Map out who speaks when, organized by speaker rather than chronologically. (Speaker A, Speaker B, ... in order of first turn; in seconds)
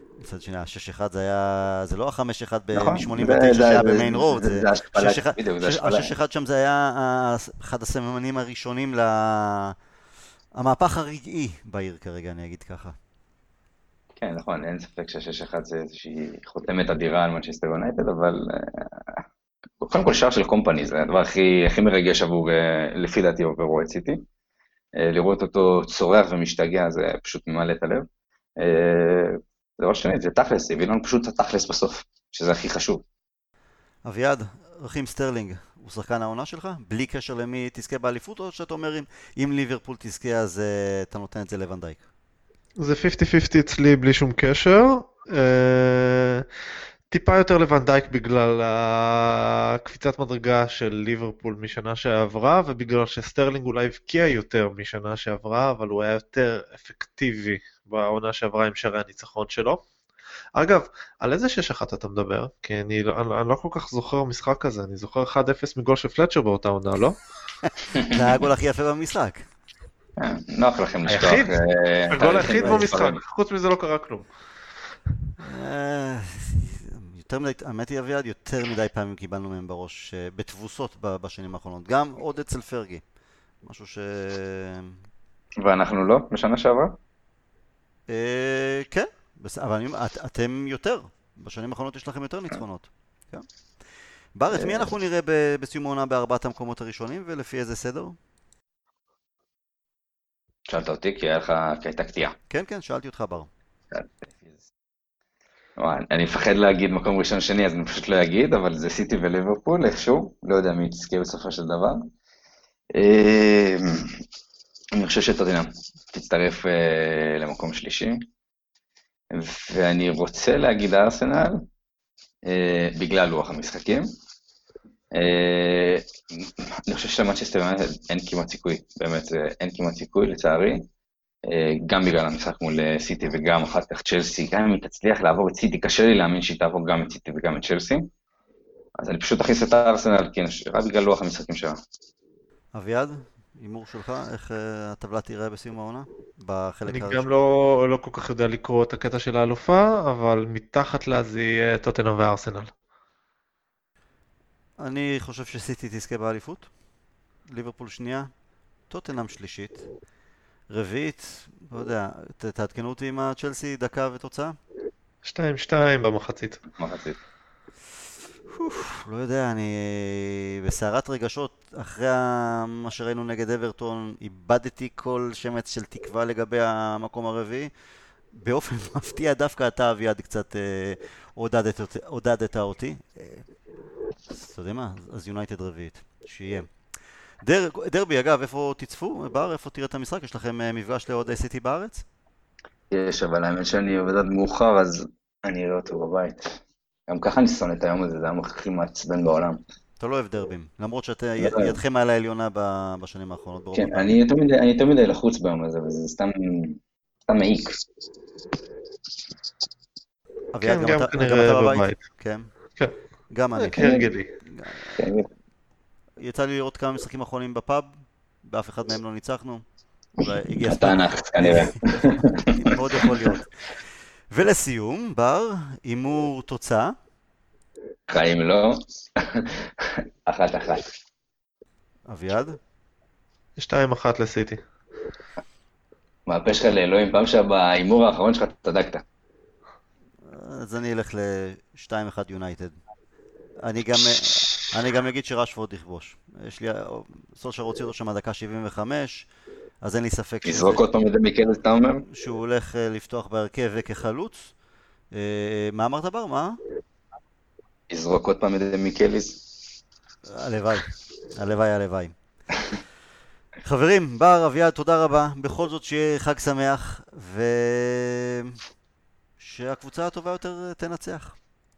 Speaker A: 0.2-9.8, 10.6-12.9, 34.0-42.0, 67.6-69.5, 75.4-83.0, 83.6-85.0, 88.1-93.4, 94.3-98.2, 102.5-103.5, 142.7-147.2, 154.8-156.7, 157.5-158.3, 158.9-159.8, 160.7-164.6, 168.5-177.7, 178.3-183.5, 184.3-186.7, 187.4-192.1, 200.0-204.2, 210.5-212.5, 213.3-215.0, 216.2-219.6, 220.2-223.5, 224.3-226.9, 232.1-232.6, 240.2-242.8, 243.6-249.3, 249.8-250.8, 252.1-254.5, 255.1-256.6, 260.3-262.1, 263.6-268.6, 269.4-271.4
Speaker B: 2.7-6.1, 14.2-19.2, 19.8-24.2, 24.9-33.0, 67.9-68.4, 70.2-73.2, 85.6-87.0, 94.5-94.9, 100.7-102.3, 103.9-104.7, 105.8-112.1, 112.9-114.2, 114.9-118.2, 119.3-121.6, 122.5-124.1, 125.1-130.9, 131.4-138.1, 139.0-141.8, 166.7-167.2, 192.9-199.6, 201.4-201.8, 203.7-207.8, 215.0-215.3, 220.5-223.2, 228.1-230.9, 236.3-239.0, 250.4-252.1, 257.9-259.4
Speaker C: 42.8-46.5, 47.1-59.8, 60.5-67.2, 71.1-71.6, 72.1-74.3, 146.9-152.7, 165.2-166.6, 210.6-212.0, 213.6-214.3, 233.6-234.6